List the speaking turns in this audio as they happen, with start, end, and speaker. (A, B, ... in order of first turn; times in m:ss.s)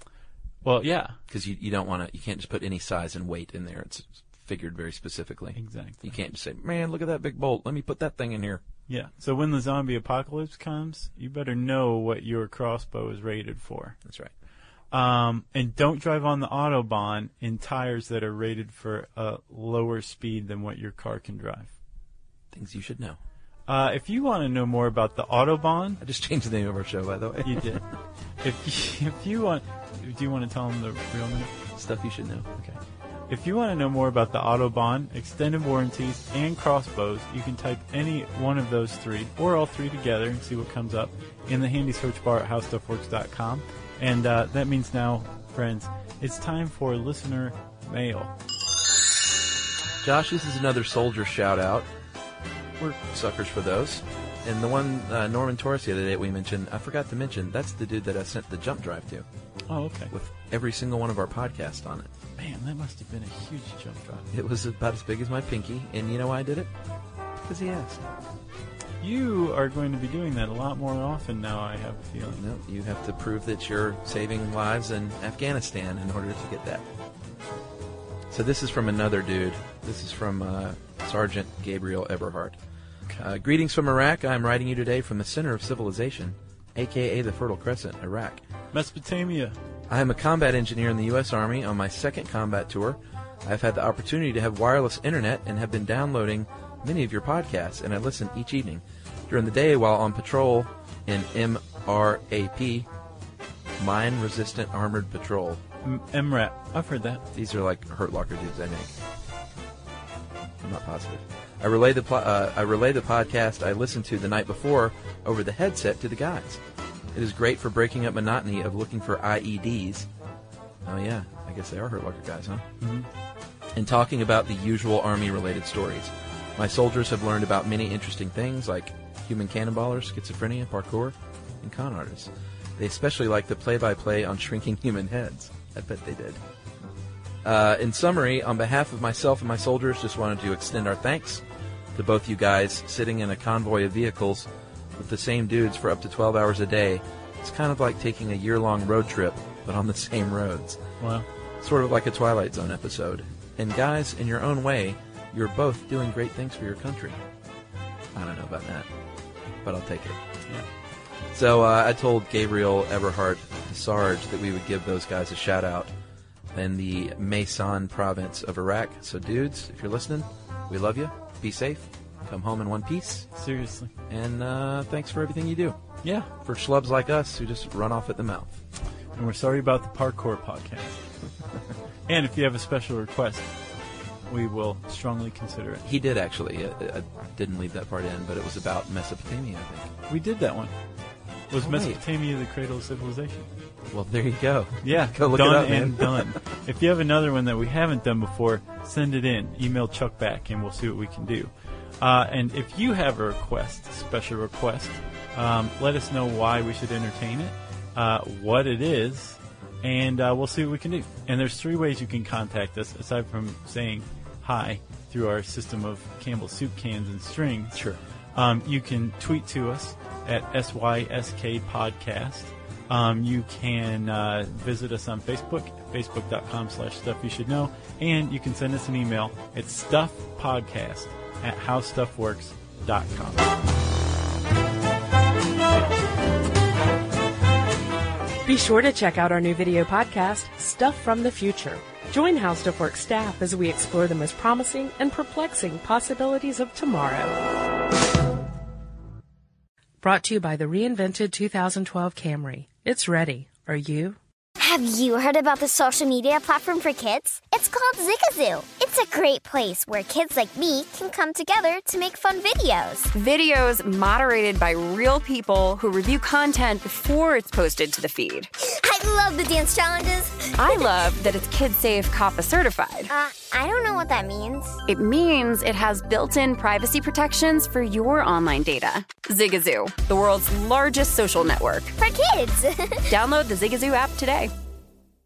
0:00.6-0:01.2 A
0:01.3-0:08.6 B
0:05.6-0:06.1 A
0:08.9-0:14.0 A
0:14.0-0:14.3 B
0:14.9-0:21.7 A
0:22.5-0:23.2 B
0:23.7-0:26.0 A
0:26.0-0:27.8 B
0:27.4-0:27.8 A
0:28.4-0:31.5 A
0:31.8-0:32.5 B
0:32.6-0:48.3 A
0:50.0-0:51.9 B
0:52.8-0:59.3 B
0:59.7-1:00.1 A
1:00.1-1:02.1 B
1:02.4-1:04.3 A
1:04.3-1:06.7 B
1:07.4-1:08.1 B
1:09.0-1:12.4 A
1:12.4-1:16.9 B
1:18.3-1:22.6 B
1:23.2-1:28.4 B
1:28.7-1:29.6 A
1:29.9-1:42.9 B
1:43.8-1:45.6 B
1:45.8-1:47.3 A
1:47.3-1:48.9 B
1:50.6-1:56.6 B
1:57.1-2:00.1 B
2:00.8-2:02.7 B
2:02.8-2:03.1 A
2:03.7-2:16.4 B
2:17.4-2:21.4 B
2:22.0-2:30.8 B
2:31.0-2:31.3 A
2:31.6-2:37.2 B
2:38.1-2:38.9 B
2:39.6-2:40.2 B
2:41.3-2:45.9 B
2:46.5-2:53.3 B
2:53.3-2:53.9 A
2:54.1-2:55.8 B
2:56.0-2:56.3 A
2:56.4-2:58.6 B
2:59.2-3:01.0 A
3:02.1-3:03.5 A
3:04.3-3:05.8 A
3:05.8-3:09.9 B
3:10.1-3:10.7 A
3:11.5-3:13.5 A
3:11.6-3:12.0 B
3:13.9-3:16.4 B
3:14.8-3:37.8 A
3:37.8-3:38.0 B
3:38.4-3:53.5 A
3:58.4-4:07.4 C
4:10.0-4:14.2 C
4:14.6-4:23.1 D
4:23.1-4:28.5 E
4:28.6-4:30.9 D
4:30.6-4:33.1 E
4:33.1-4:34.8 D
4:34.9-4:42.0 E
4:42.0-4:43.1 D
4:43.1-4:44.5 E